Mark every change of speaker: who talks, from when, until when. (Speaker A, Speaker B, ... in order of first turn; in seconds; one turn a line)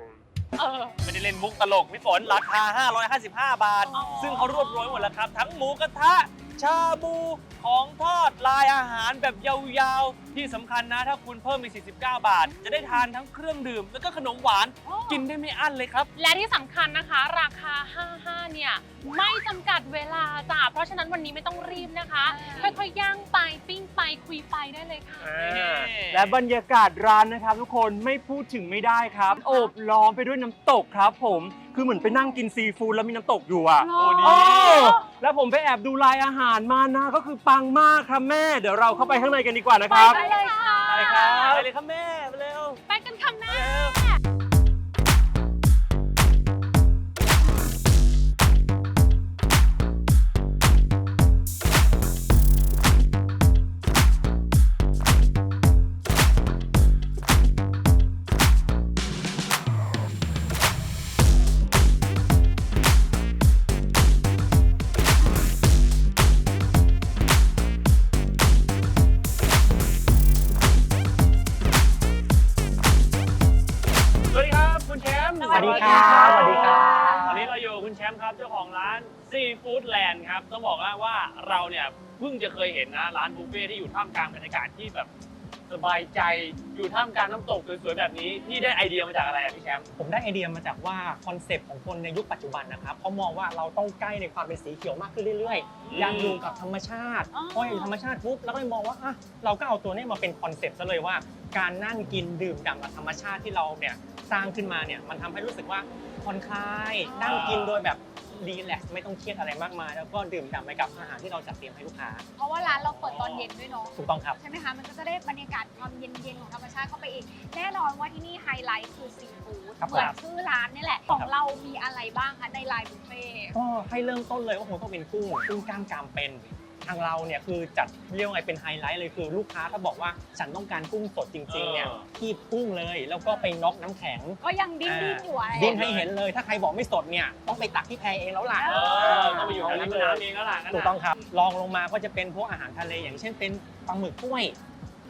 Speaker A: 0.6-1.0
Speaker B: 1.0-16.1
Speaker C: 3.9-4.5
Speaker A: 3.9-5.2
Speaker C: 14.8-15.3
Speaker A: 16.1-25.3
Speaker C: 22.2-22.8
Speaker B: 25.2-26.4
Speaker D: 25.3-40.3
Speaker A: 33.8-35.1
Speaker B: 34.0-34.9
Speaker A: 39.9-41.4
Speaker C: 39.9-41.6
Speaker B: 40.9-42.8
Speaker D: 41.0-41.7
Speaker A: 42.9-43.8
Speaker B: 43.5-44.0
Speaker B: 74.3-85.1
Speaker A: 75.4-77.0
Speaker E: 75.5-77.3
Speaker C: 75.5-77.5
Speaker B: 85.7-89.9
Speaker E: 90.0-112.2
Speaker C: 95.5-96.6
Speaker B: 95.8-96.4
Speaker C: 97.3-97.9
Speaker C: 107.0-107.5
Speaker B: 107.2-107.8
Speaker C: 112.4-123.6
Speaker B: 112.8-113.5
Speaker E: 114.0-114.4
Speaker E: 119.8-120.2
Speaker E: 123.5-144.6
Speaker B: 131.5-132.1
Speaker A: 133.2-133.5
Speaker C: 134.4-135.8
Speaker B: 135.6-136.1
Speaker C: 138.5-139.9
Speaker B: 138.7-141.0